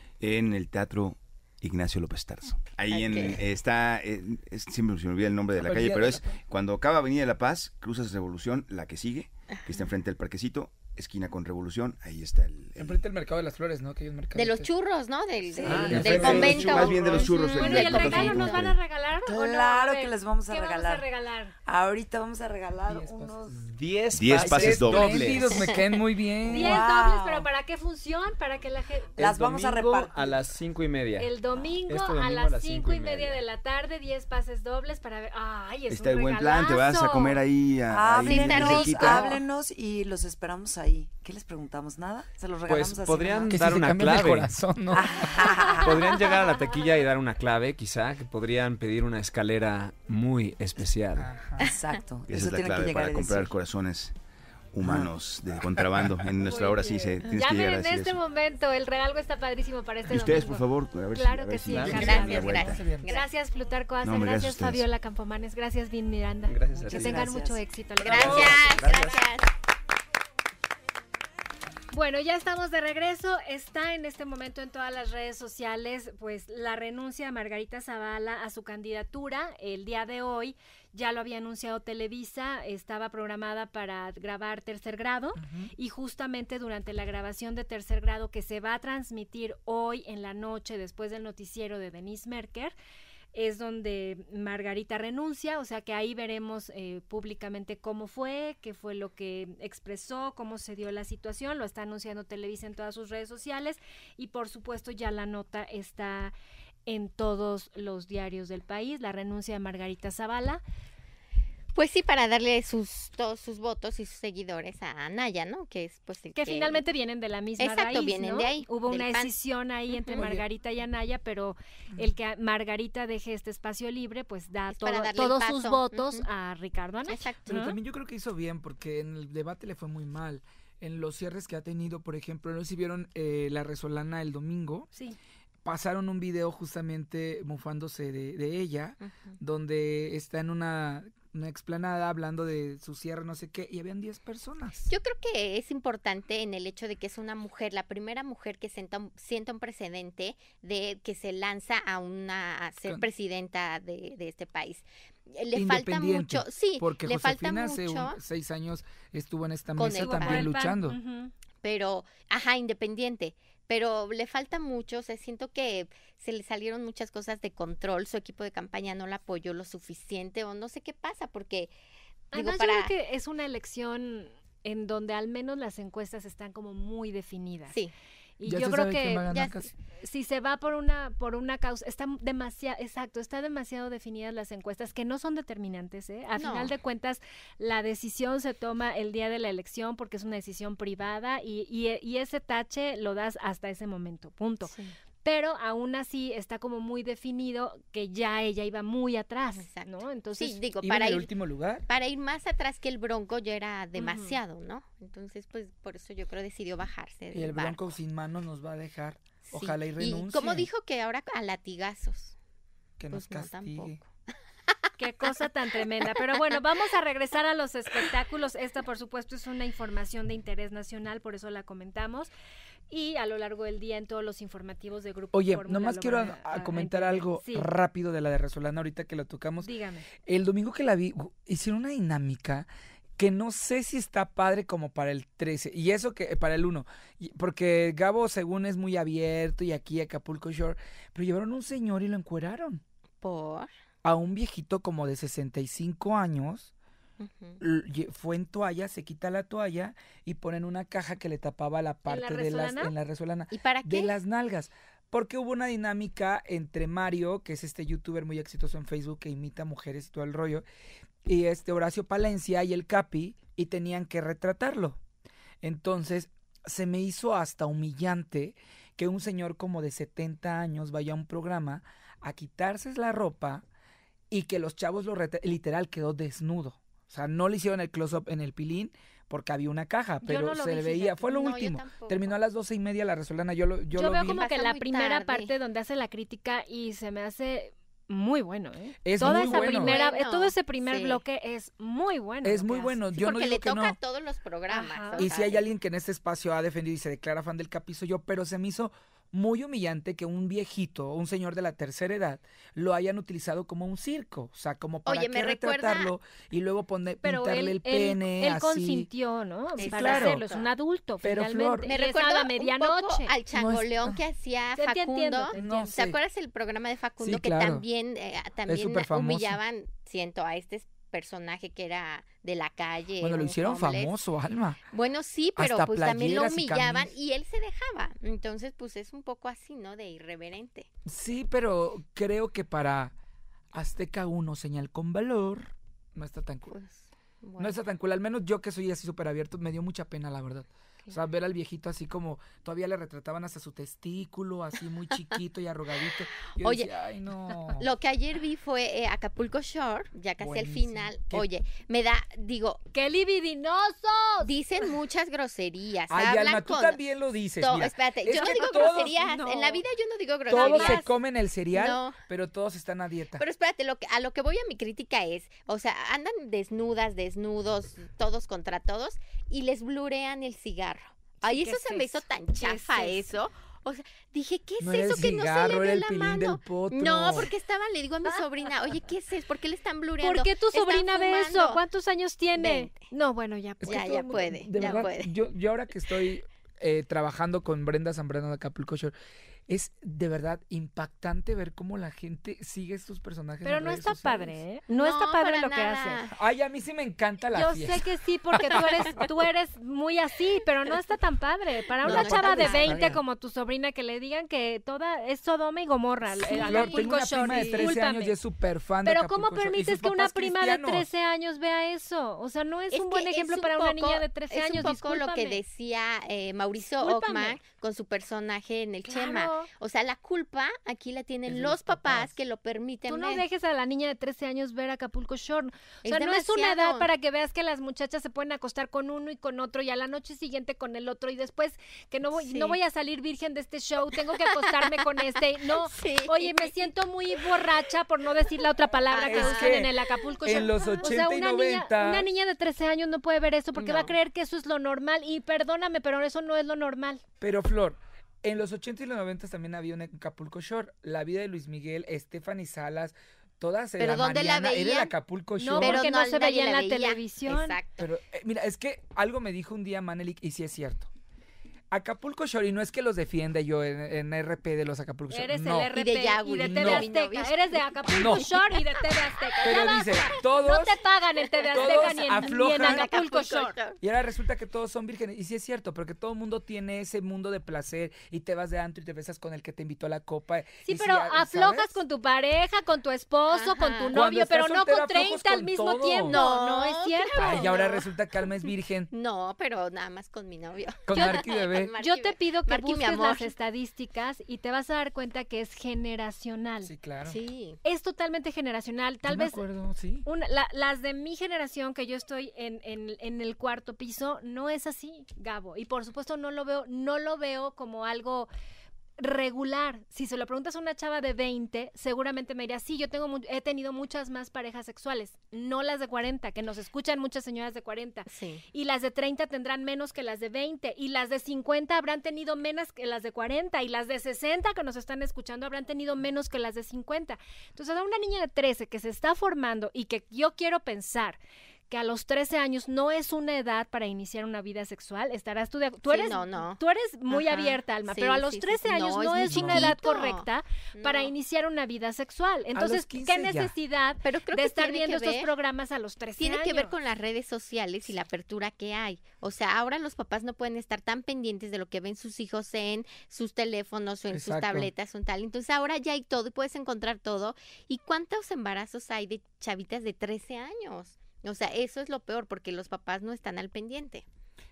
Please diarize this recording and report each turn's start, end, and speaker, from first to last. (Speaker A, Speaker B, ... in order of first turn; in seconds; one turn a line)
Speaker A: 0.2-13.0
Speaker B: 2.9-3.4
Speaker C: 5.6-6.3
Speaker B: 9.5-9.8
Speaker C: 12.8-14.7
Speaker B: 14.3-18.3
Speaker C: 15.6-16.8
Speaker D: 15.6-18.6
Speaker A: 15.9-18.8
Speaker E: 17.1-21.6
Speaker F: 19.2-21.1
Speaker F: 21.6-23.6
Speaker C: 22.9-23.4
Speaker D: 23.6-25.6
Speaker A: 24.1-25.4
Speaker C: 24.3-26.8
Speaker B: 25.5-25.9
Speaker E: 26.4-29.2
Speaker F: 26.4-27.5
Speaker F: 29.2-30.4
Speaker D: 29.2-31.3
Speaker E: 31.2-37.4
Speaker D: 31.9-33.4
Speaker A: 35.9-39.4
Speaker F: 37.9-43.6
Speaker B: 38.2-39.3
Speaker D: 42.7-44.6
Speaker C: 43.5-45.4
Speaker F: 44.9-46.2
Speaker D: 45.6-51.3
Speaker C: 51.2-51.7
Speaker F: 51.6-53.5
Speaker A: 52.3-54.1
Speaker A: 54.7-58.2
Speaker F: 54.8-55.1
Speaker E: 56.4-68.6
Speaker A: 60.1-62.8
Speaker D: 61.7-62.1
Speaker C: 61.8-63.1
Speaker B: 61.9-63.3
Speaker A: 64.0-64.8
Speaker D: 66.5-67.2
Speaker F: 66.9-67.6
Speaker B: 68.0-69.5
Speaker C: 68.1-68.7
Speaker D: 68.2-69.2
Speaker E: 71.9-92.8
Speaker C: 85.4-85.7
Speaker E: 93.3-106.3
Speaker E: 106.9-110.6
Speaker B: 111.8-116.8
Speaker E: 116.3-127.8
Speaker B: 117.6-119.3
Speaker B: 119.9-120.3
Speaker C: 120.2-120.4
Speaker B: 124.7-126.3
Speaker B: 127.1-127.6
Speaker C: 127.5-134.9
Speaker C: 135.7-144.9
Speaker B: 139.0-139.4
Speaker B: 144.9-158.2
Speaker C: 155.6-161.0
Speaker B: 159.8-160.5
Speaker E: 159.9-161.3
Speaker B: 161.6-171.7
Speaker E: 172.3-177.8
Speaker B: 172.3-172.9
Speaker B: 177.7-177.9
Speaker E: 178.4-179.3
Speaker C: 178.4-179.7
Speaker B: 179.3-179.7
Speaker E: 180.0-200.6
Speaker B: 186.3-186.7
Speaker B: 194.6-194.9
Speaker B: 199.6-201.3
Speaker C: 200.8-201.9
Speaker B: 201.9-207.9
Speaker E: 204.0-204.4
Speaker C: 207.3-210.7
Speaker B: 209.5-212.3
Speaker C: 213.0-214.0
Speaker B: 213.1-214.1
Speaker E: 215.0-222.3
Speaker E: 222.9-227.7
Speaker C: 225.3-229.7
Speaker E: 229.6-230.1
Speaker C: 230.2-242.8
Speaker B: 243.2-243.7
Speaker C: 244.0-246.7
Speaker B: 247.2-247.6
Speaker C: 247.6-260.6
Speaker E: 252.1-252.9
Speaker B: 253.5-254.2
Speaker C: 261.2-265.0
Speaker C: 265.6-273.6
Speaker C: 274.3-284.4
Speaker E: 280.2-281.3
Speaker B: 281.2-282.4
Speaker E: 283.9-293.0
Speaker B: 284.3-285.5
Speaker C: 289.1-290.0
Speaker B: 289.2-291.2
Speaker C: 292.4-294.0
Speaker B: 293.1-295.7
Speaker E: 294.7-295.3
Speaker C: 295.2-309.1
Speaker B: 305.1-306.1
Speaker E: 307.2-313.3
Speaker C: 309.8-310.4
Speaker B: 309.8-310.7
Speaker C: 311.2-311.9
Speaker B: 311.9-324.2
Speaker C: 313.5-314.2
Speaker E: 314.8-316.0
Speaker C: 315.6-316.2
Speaker C: 317.2-317.8
Speaker C: 318.7-319.6
Speaker C: 323.2-324.8
Speaker B: 324.9-330.9
Speaker C: 325.6-327.1
Speaker C: 331.1-333.1
Speaker C: 333.7-336.8
Speaker B: 336.7-337.8
Speaker C: 337.6-347.9
Speaker B: 346.1-346.9
Speaker B: 347.8-352.8
Speaker C: 350.4-351.4
Speaker E: 352.9-354.5
Speaker B: 354.4-357.0
Speaker C: 356.1-359.1
Speaker B: 357.6-361.2
Speaker E: 358.4-359.8
Speaker C: 360.5-363.4
Speaker E: 360.6-361.0
Speaker B: 361.7-362.2
Speaker B: 363.4-381.8
Speaker E: 371.4-373.3
Speaker C: 374.8-377.5
Speaker E: 380.2-385.0
Speaker B: 382.6-383.0
Speaker C: 383.8-389.1
Speaker B: 383.9-385.3
Speaker C: 389.7-394.6
Speaker E: 393.6-396.2
Speaker B: 394.9-396.4
Speaker C: 396.4-398.1
Speaker E: 397.5-408.4
Speaker B: 398.7-399.3
Speaker B: 402.0-403.2
Speaker C: 402.0-403.2
Speaker B: 406.4-408.0
Speaker C: 406.6-411.1
Speaker E: 409.0-415.6
Speaker B: 412.9-423.4
Speaker E: 417.0-417.6
Speaker E: 419.1-419.7
Speaker C: 421.5-422.3
Speaker E: 423.1-447.2
Speaker B: 426.0-427.1
Speaker B: 432.4-432.8
Speaker B: 434.4-435.1
Speaker B: 435.6-437.7
Speaker B: 439.1-441.1
Speaker C: 439.2-442.3
Speaker B: 443.8-444.2
Speaker C: 447.4-456.1
Speaker B: 454.0-455.2
Speaker E: 455.6-457.8
Speaker B: 455.8-458.1
Speaker C: 458.0-461.1
Speaker C: 461.9-465.9
Speaker E: 465.3-473.8
Speaker B: 465.9-470.4
Speaker C: 466.6-467.1
Speaker C: 468.1-468.5
Speaker C: 469.6-471.0
Speaker B: 471.6-474.0
Speaker C: 471.7-473.1
Speaker C: 474.0-482.0
Speaker E: 480.9-488.0
Speaker B: 483.5-484.2
Speaker C: 484.1-486.4
Speaker B: 486.3-493.5
Speaker C: 487.4-489.1
Speaker C: 491.1-491.9
Speaker E: 491.1-491.5
Speaker E: 492.0-496.9
Speaker C: 496.8-497.4
Speaker B: 497.2-497.8
Speaker E: 497.8-499.6
Speaker C: 499.3-500.3
Speaker E: 500.3-508.5
Speaker E: 509.2-531.4
Speaker B: 518.3-518.6
Speaker E: 531.9-546.9
Speaker B: 536.0-541.3
Speaker C: 539.5-540.0
Speaker C: 542.7-543.7
Speaker B: 544.2-545.5
Speaker B: 546.4-564.3
Speaker C: 554.3-554.9